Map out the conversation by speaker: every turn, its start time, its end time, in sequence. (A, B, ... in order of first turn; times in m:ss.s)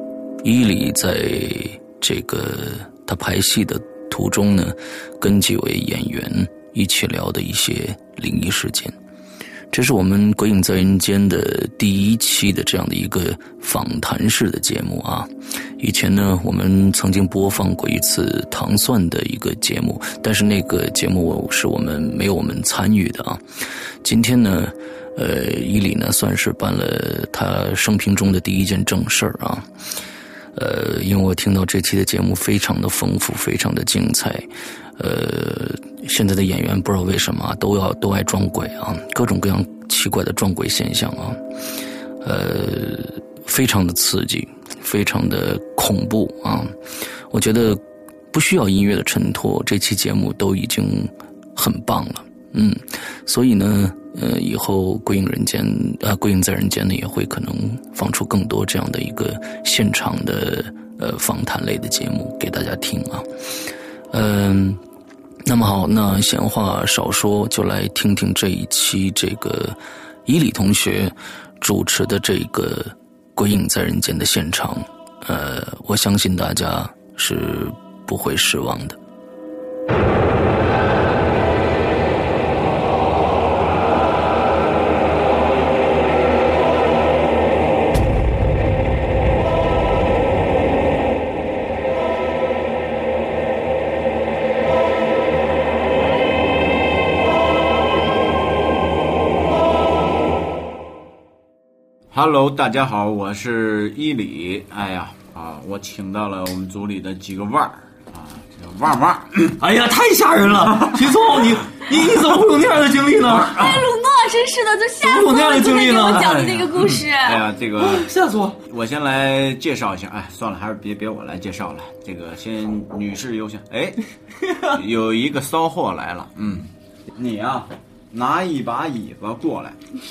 0:00.4-0:08.9 A
0:09.7-0:23.4 A
0:24.0-0:29.7 A
0:30.5-0:41.4 A
0:42.2-0:46.7 A
0:47.3-1:04.8 A
1:05.4-1:19.0 A
1:42.1-1:49.6 B
1:49.6-1:53.6 C
1:53.2-1:53.8 B
1:53.5-1:57.4 D
1:55.0-1:56.4 C
1:56.1-1:58.1 B
1:57.8-1:58.6 C
1:58.7-2:04.0 B
2:04.6-2:09.8 B